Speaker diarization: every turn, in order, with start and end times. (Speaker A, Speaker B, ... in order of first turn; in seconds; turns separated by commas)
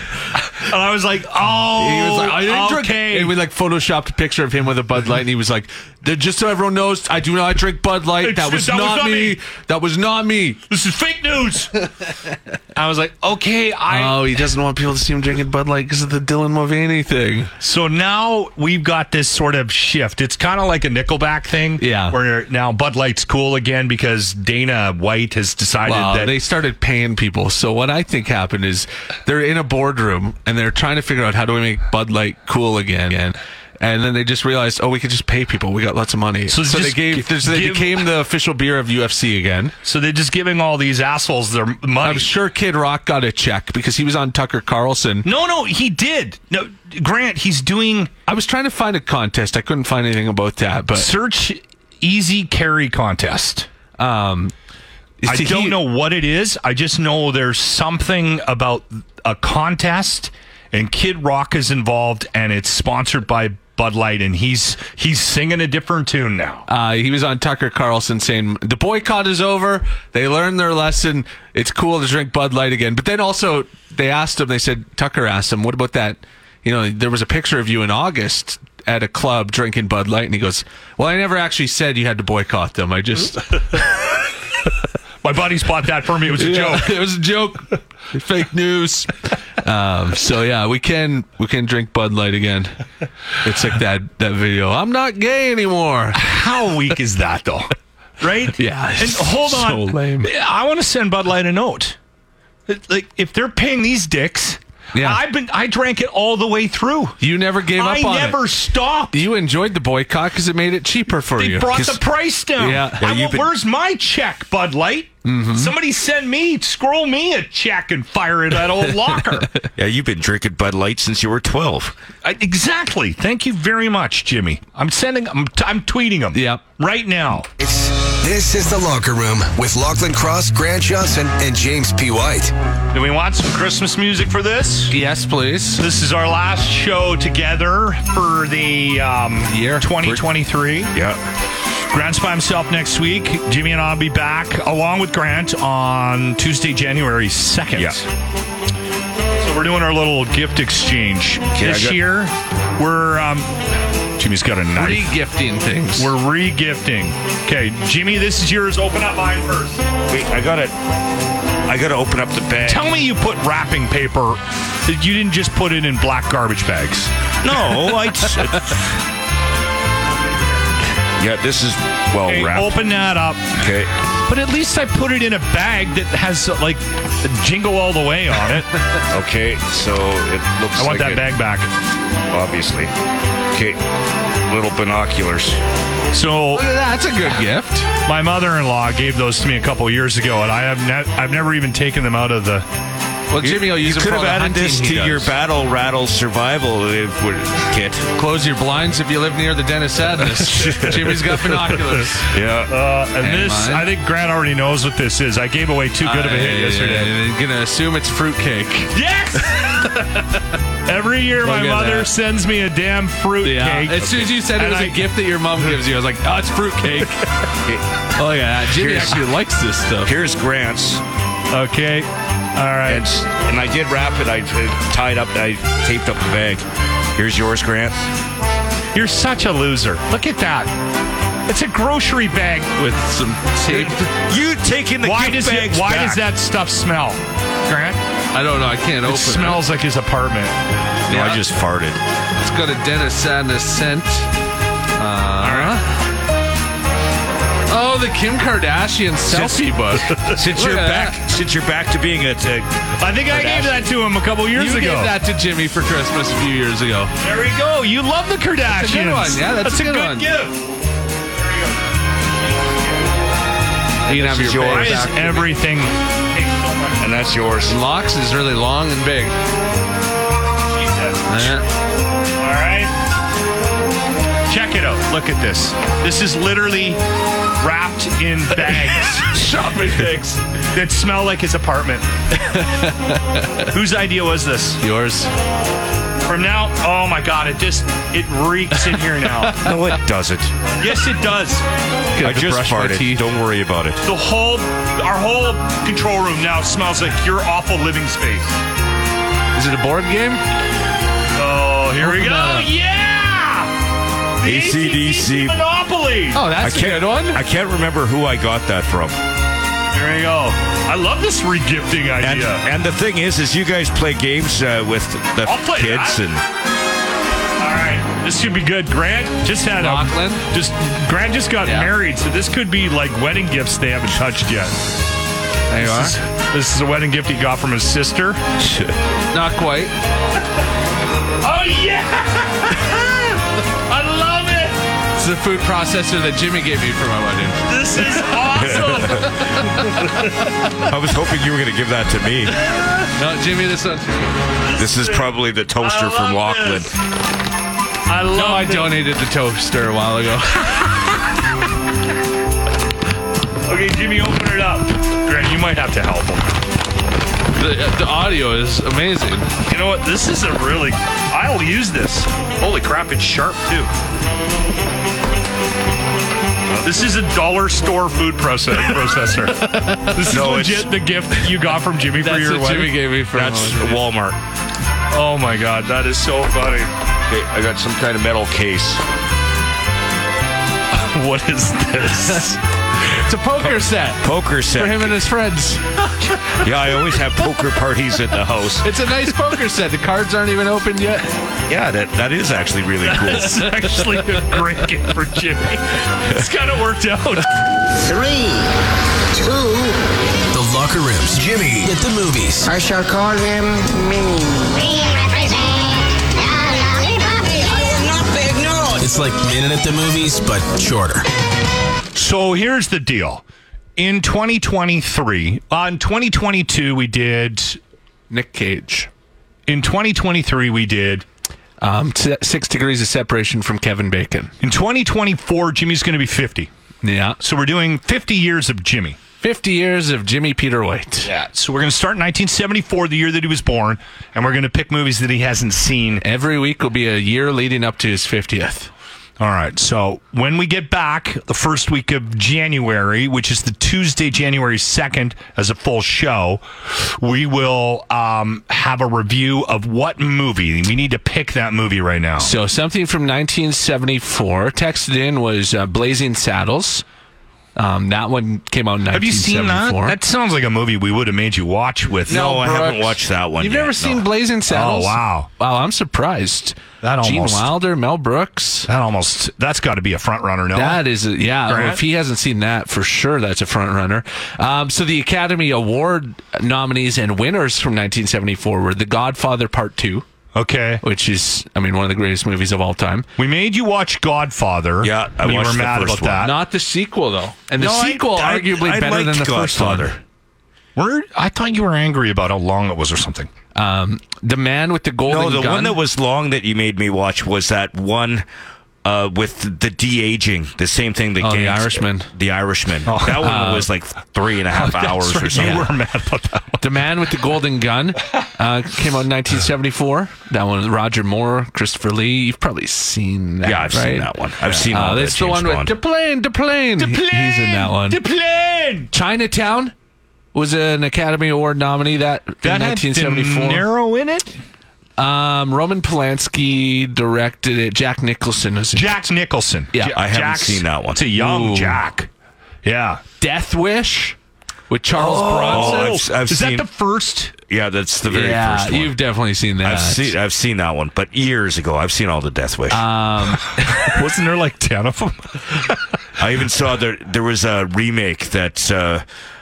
Speaker A: 0.5-3.4, Speaker B: 1.8-10.7, Speaker A: 8.2-9.4, Speaker A: 10.7-11.7, Speaker A: 12.8-14.2, Speaker B: 13.9-17.5, Speaker A: 17.6-26.3, Speaker B: 21.8-22.2, Speaker B: 25.9-39.8, Speaker A: 36.5-38.1, Speaker A: 39.9-42.3, Speaker B: 42.0-45.3, Speaker A: 45.2-48.1, Speaker B: 48.3-51.1, Speaker A: 51.0-53.7, Speaker B: 54.0-54.5, Speaker B: 55.2-55.8, Speaker A: 55.3-66.7, Speaker B: 66.7-83.8, Speaker A: 85.2-87.0, Speaker B: 86.3-92.8, Speaker B: 93.4-96.2, Speaker A: 96.2-102.0, Speaker B: 98.6-100.3, Speaker A: 102.7-107.2, Speaker B: 104.9-105.2, Speaker B: 107.2-108.4, Speaker A: 107.8-109.2, Speaker B: 109.1-111.8, Speaker A: 111.4-119.5, Speaker C: 111.7-112.0, Speaker B: 112.6-113.0, Speaker C: 113.0-113.5, Speaker B: 115.2-115.7, Speaker C: 119.8-121.9, Speaker A: 122.2-127.5, Speaker B: 126.3-126.6, Speaker D: 127.6-132.5, Speaker A: 132.9-134.9, Speaker B: 134.9-135.8, Speaker A: 135.8-140.9, Speaker B: 139.5-140.2, Speaker C: 140.9-141.2, Speaker A: 141.9-148.1, Speaker A: 149.4-153.5, Speaker C: 151.6-152.0, Speaker A: 154.2-155.1, Speaker B: 154.8-156.1, Speaker A: 156.0-159.8, Speaker C: 160.1-160.8, Speaker C: 161.7-162.9, Speaker A: 162.7-167.1, Speaker C: 167.4-168.9, Speaker C: 171.2-172.8, Speaker A: 172.3-173.6, Speaker C: 173.6-173.9, Speaker A: 174.3-178.7, Speaker C: 179.1-181.2, Speaker A: 180.8-181.7, Speaker C: 182.3-182.9, Speaker C: 183.5-183.8, Speaker C: 184.5-185.6, Speaker A: 186.1-186.7, Speaker B: 186.5-187.9, Speaker A: 188.1-192.7, Speaker B: 193.3-195.3, Speaker C: 193.4-198.1, Speaker B: 198.2-202.3, Speaker C: 200.4-201.2, Speaker C: 202.3-202.7, Speaker A: 202.7-207.1, Speaker B: 203.2-203.9, Speaker B: 206.0-210.4, Speaker A: 208.9-210.2, Speaker A: 210.9-215.1, Speaker B: 211.4-212.1, Speaker B: 213.4-217.2, Speaker B: 218.2-220.2, Speaker C: 218.7-219.2, Speaker C: 220.0-221.0, Speaker A: 221.5-223.1, Speaker C: 222.9-226.6, Speaker C: 227.2-228.0, Speaker A: 228.9-230.7, Speaker A: 231.5-233.9, Speaker B: 233.0-234.1, Speaker C: 234.1-236.2, Speaker A: 235.0-238.0, Speaker B: 238.3-239.7, Speaker A: 239.1-240.5, Speaker B: 241.1-241.4, Speaker C: 241.1-242.0, Speaker B: 242.4-244.3, Speaker B: 245.0-245.9, Speaker A: 245.4-245.8, Speaker B: 247.7-251.2, Speaker A: 249.3-250.4, Speaker C: 250.3-252.7, Speaker A: 253.0-255.1, Speaker B: 253.3-253.8, Speaker B: 254.5-257.1, Speaker A: 257.2-260.7, Speaker B: 258.7-260.4, Speaker A: 261.4-261.9, Speaker A: 262.4-263.1, Speaker B: 264.1-265.5, Speaker C: 264.1-265.2, Speaker A: 264.6-267.3, Speaker C: 267.0-267.8, Speaker B: 267.6-269.4, Speaker A: 270.7-271.6, Speaker B: 271.3-271.7, Speaker A: 272.4-272.9, Speaker A: 274.5-277.0, Speaker A: 277.6-282.1, Speaker B: 278.7-280.4, Speaker B: 282.3-283.7, Speaker A: 283.7-284.8, Speaker B: 284.8-285.3, Speaker A: 286.2-289.7, Speaker B: 288.8-290.0, Speaker C: 289.6-290.5, Speaker A: 290.8-291.6, Speaker B: 292.1-293.3, Speaker C: 292.2-294.0, Speaker A: 294.0-298.6, Speaker B: 299.5-300.4, Speaker A: 301.4-303.7, Speaker B: 302.0-302.7, Speaker A: 304.4-306.5, Speaker C: 304.4-305.6, Speaker B: 306.3-307.4, Speaker C: 306.6-309.2, Speaker A: 309.9-312.6, Speaker C: 312.2-316.4, Speaker A: 315.4-316.2, Speaker A: 317.6-324.8, Speaker B: 319.8-320.5, Speaker B: 321.6-321.9, Speaker B: 325.7-326.2, Speaker A: 325.8-328.4, Speaker C: 328.6-328.9, Speaker B: 329.3-329.9, Speaker A: 331.4-334.8, Speaker B: 335.2-338.3, Speaker A: 337.7-340.2, Speaker C: 338.6-339.3, Speaker B: 338.9-339.9, Speaker C: 340.9-342.6, Speaker B: 342.7-344.4, Speaker A: 344.6-346.9, Speaker C: 344.8-346.9, Speaker A: 348.1-349.0, Speaker B: 348.3-351.2, Speaker A: 353.6-356.5, Speaker B: 357.5-359.5, Speaker A: 359.6-363.9, Speaker A: 366.8-373.0, Speaker B: 369.6-370.3, Speaker C: 370.3-370.9, Speaker B: 372.1-374.0, Speaker C: 373.4-374.4, Speaker A: 375.1-376.9, Speaker C: 377.3-379.0, Speaker A: 380.9-382.6, Speaker B: 382.2-386.2, Speaker C: 383.6-385.2, Speaker C: 386.6-388.9, Speaker B: 388.8-391.3, Speaker C: 391.7-393.6, Speaker A: 393.1-397.5, Speaker E: 398.0-398.7, Speaker E: 399.3-400.0, Speaker D: 400.5-402.7, Speaker E: 402.6-409.2, Speaker D: 409.0-411.3, Speaker A: 412.1-413.4, Speaker A: 414.0-417.8, Speaker B: 418.3-419.1, Speaker A: 419.7-421.2, Speaker B: 421.8-424.5, Speaker A: 424.6-426.7, Speaker B: 427.0-427.4, Speaker A: 427.4-429.2, Speaker B: 429.4-431.3, Speaker A: 431.3-436.2, Speaker B: 436.2-438.9, Speaker A: 439.4-452.5, Speaker B: 452.4-457.1, Speaker B: 457.8-460.2, Speaker A: 459.1-462.5, Speaker C: 462.3-464.3, Speaker B: 462.3-468.9, Speaker A: 464.7-465.5, Speaker A: 467.0-467.7, Speaker A: 468.9-471.0, Speaker B: 470.7-480.3, Speaker A: 471.7-472.0, Speaker A: 480.6-481.0, Speaker B: 481.0-483.3, Speaker A: 483.4-486.6, Speaker C: 485.0-486.4, Speaker B: 486.4-490.2, Speaker C: 487.8-490.2, Speaker A: 491.0-493.5, Speaker B: 493.8-496.0, Speaker C: 495.3-498.4, Speaker C: 499.0-505.9, Speaker B: 501.4-502.3, Speaker A: 503.1-503.7, Speaker B: 503.2-503.9, Speaker A: 504.7-506.8, Speaker B: 505.5-505.9, Speaker B: 506.8-518.2, Speaker C: 513.6-515.9, Speaker A: 517.0-519.1, Speaker B: 519.1-519.9, Speaker B: 520.5-523.9, Speaker A: 522.6-524.6, Speaker B: 525.2-529.2, Speaker A: 528.9-532.3, Speaker B: 529.9-530.2, Speaker C: 530.1-531.2, Speaker B: 531.4-532.0, Speaker A: 532.8-533.2, Speaker B: 533.4-534.4, Speaker B: 534.9-536.2, Speaker C: 535.1-536.9, Speaker A: 535.2-537.5, Speaker C: 537.7-539.1, Speaker B: 538.2-540.4, Speaker C: 539.8-543.0, Speaker B: 542.9-544.1, Speaker A: 543.9-546.0, Speaker C: 546.4-549.2